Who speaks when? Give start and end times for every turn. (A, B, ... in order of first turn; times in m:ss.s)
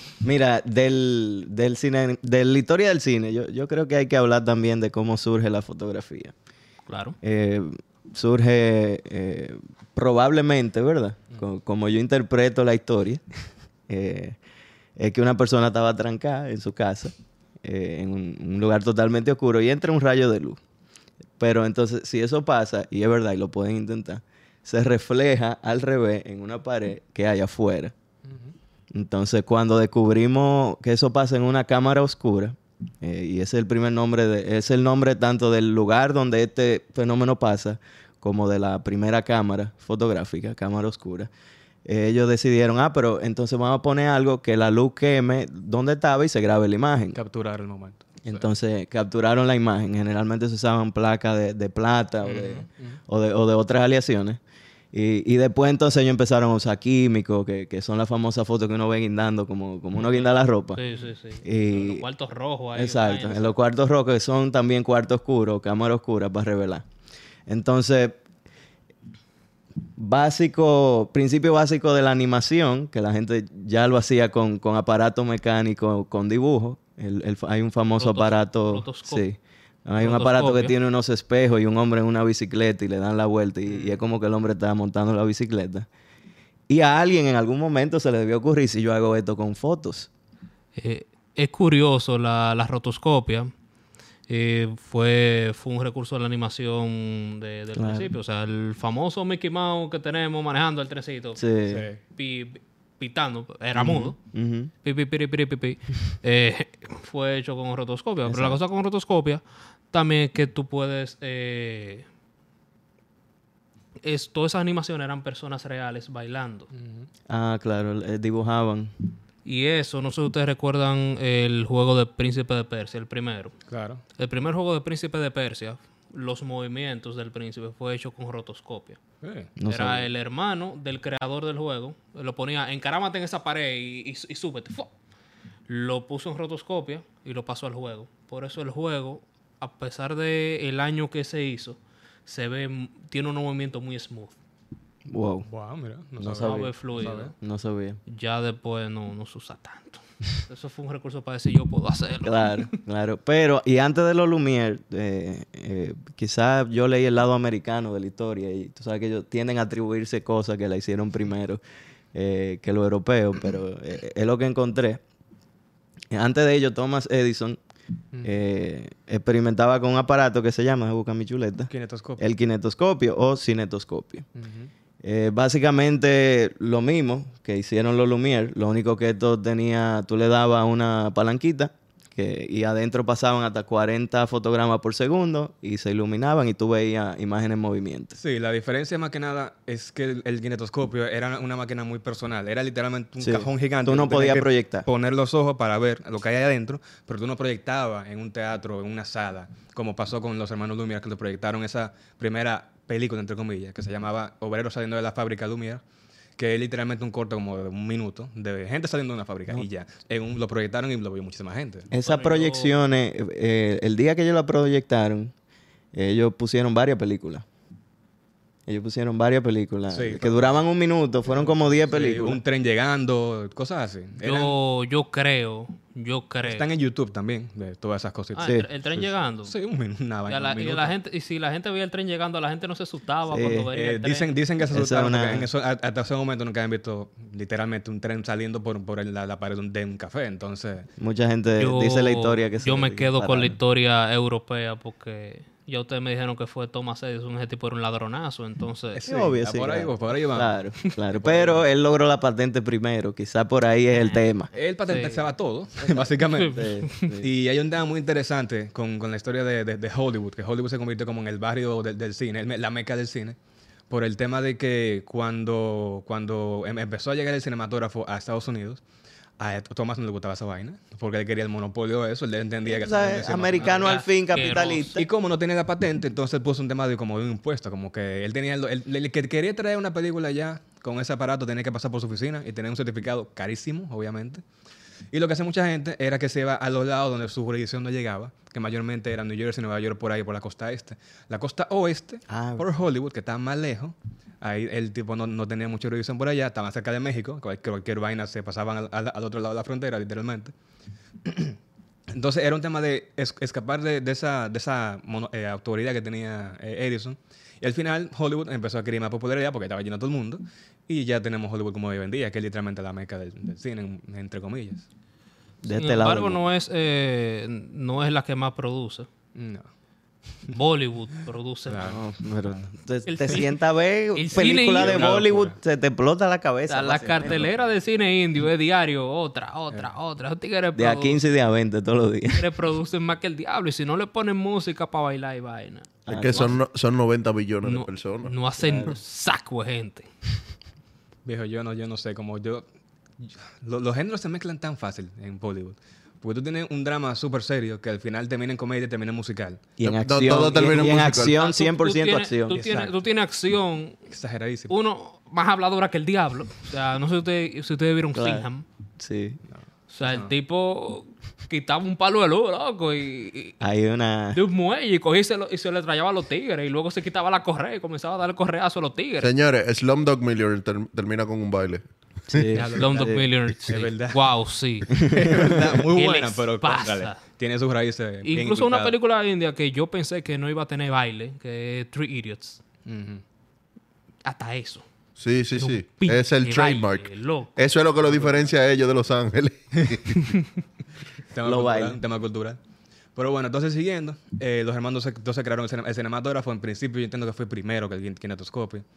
0:00.2-0:06.3 A
0:06.9-0:07.2 B
0:07.2-0:13.2 A
0:13.9-0:14.4 A
0:15.0-0:20.6 A
0:21.4-0:27.9 A
0:28.2-0:28.5 C
0:28.9-0:41.3 A
0:41.8-0:47.2 A
0:47.1-0:48.5 C
0:48.2-0:54.4 A
0:52.2-0:53.0 C
0:54.9-1:00.8 A
1:00.7-1:03.6 B
1:01.4-1:02.0 A
1:02.8-1:06.8 A
1:07.5-1:08.2 A
1:10.0-1:25.9 A
1:18.0-1:19.2 B
1:20.0-1:20.8 B
1:26.7-1:30.1 A
1:30.8-1:33.5 B
1:34.3-1:41.4 B
1:37.8-1:38.1 A
1:41.4-1:41.9 A
1:41.7-1:42.0 C
1:42.1-1:44.2 B
1:43.8-1:44.7 A
1:44.8-1:52.1 B
1:48.3-1:48.6 A
1:54.0-1:56.7 B
1:56.7-1:57.1 C
1:57.3-1:58.9 A
1:59.4-2:03.6 B
2:03.7-2:04.0 C
2:04.2-2:09.0 B
2:09.2-2:09.5 C
2:09.6-2:10.1 A
2:09.7-2:14.9 B
2:15.7-2:24.3 B
2:25.1-2:25.5 A
2:25.5-2:27.3 C
2:26.2-2:26.7 A
2:26.4-2:27.3 B
2:27.4-2:28.0 A
2:28.1-2:32.8 B
2:32.2-2:41.6 A
2:42.1-2:45.0 A
2:46.1-2:47.6 A
2:48.2-2:54.3 A
2:51.7-2:52.2 C
2:54.4-2:54.7 C
2:55.0-3:08.2 A
3:08.2-3:25.8 C
3:13.2-3:14.9 A
3:26.4-3:31.9 C
3:31.9-3:35.3 A
3:32.0-3:32.7 B
3:35.9-3:37.4 A
3:38.7-3:42.4 A
3:39.9-3:40.6 C
3:41.3-3:44.6 C
3:44.2-3:46.7 B
3:46.5-3:50.9 C
3:48.4-3:49.5 B
3:50.3-3:54.3 B
3:53.3-3:53.7 A
3:53.7-4:00.9 C
3:54.7-3:55.5 A
4:01.0-4:03.6 A
4:01.6-4:09.0 B
4:08.9-4:10.5 C
4:09.1-4:14.5 A
4:11.1-4:11.7 C
4:14.0-4:14.2 B
4:14.5-4:23.4 C
4:14.9-4:15.2 B
4:15.8-4:17.3 A
4:16.3-4:17.1 B
4:23.9-4:28.8 C
4:29.4-4:34.0 C
4:32.6-4:35.1 A
4:33.6-4:35.0 B
4:35.0-4:44.4 C
4:45.1-5:00.5 C
4:52.3-4:52.7 A
5:01.2-5:01.6 C
5:02.1-5:14.8 C
5:15.6-5:16.4 A
5:15.7-5:19.1 B
5:19.4-5:19.7 C
5:20.5-5:22.0 B
5:21.7-5:22.7 C
5:21.8-5:27.5 A
5:23.1-5:23.5 B
5:24.2-5:25.1 B
5:24.8-5:25.6 C
5:26.7-5:31.2 B
5:27.3-5:27.5 C
5:30.8-5:32.4 A
5:32.3-5:36.5 B
5:36.1-5:36.6 A
5:36.1-5:38.3 D
5:37.6-5:40.1 B
5:38.6-5:38.9 A
5:41.2-5:42.6 C
5:43.2-5:49.6 C
5:49.8-5:52.6 A
5:49.8-5:51.4 D
5:51.2-5:54.0 B
5:52.5-5:53.0 C
5:54.1-5:54.7 C
5:54.7-5:58.6 B
5:58.1-5:58.5 A
5:59.0-5:59.4 A
5:59.5-6:00.3 C
5:59.9-6:03.6 B
6:03.6-6:04.4 A
6:04.3-6:09.3 B
6:09.2-6:12.5 D
6:12.3-6:13.3 A
6:12.5-6:13.1 C
6:12.6-6:15.0 B
6:13.7-6:14.3 C
6:14.9-6:18.9 C
6:14.9-6:15.8 A
6:15.9-6:17.2 B
6:18.2-6:22.6 B
6:22.9-6:23.2 C
6:24.2-6:24.8 B
6:25.2-6:30.4 D
6:25.6-6:27.5 B
6:28.0-6:28.5 C
6:31.3-6:32.6 C
6:31.4-6:32.0 A
6:33.2-6:38.8 C